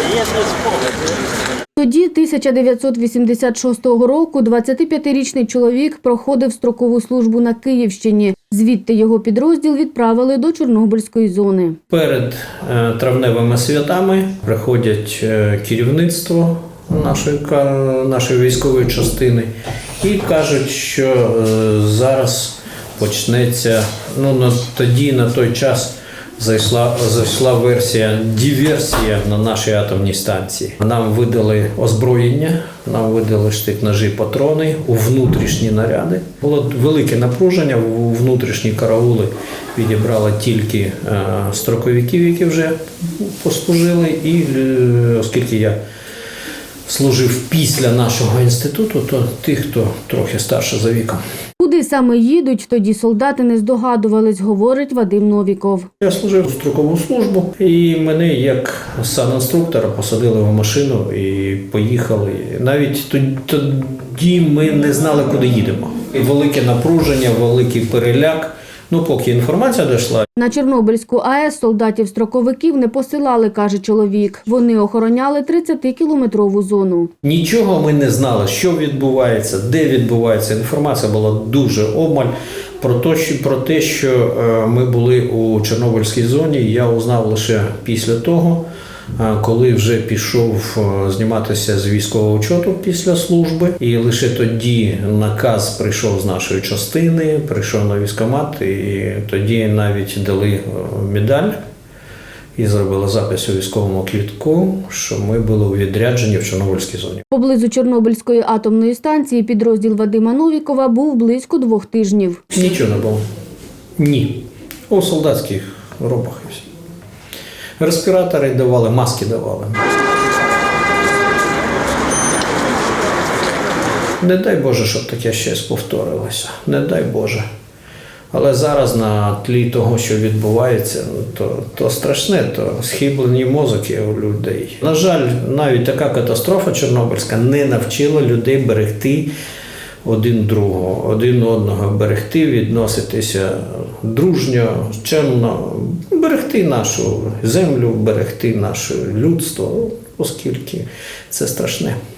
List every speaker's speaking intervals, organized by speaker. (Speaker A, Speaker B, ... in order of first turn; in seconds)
Speaker A: 1.8-11.8, 51.6-55.9, 70.3-77.1, 107.3-112.5
Speaker B: 11.9-19.5, 20.0-45.8, 46.9-51.2, 56.0-70.2, 77.2-88.6, 89.2-101.6, 102.6-107.2, 112.5-113.2, 114.0-116.7, 117.8-119.8, 124.2-127.4, 128.3-139.3, 140.0-152.0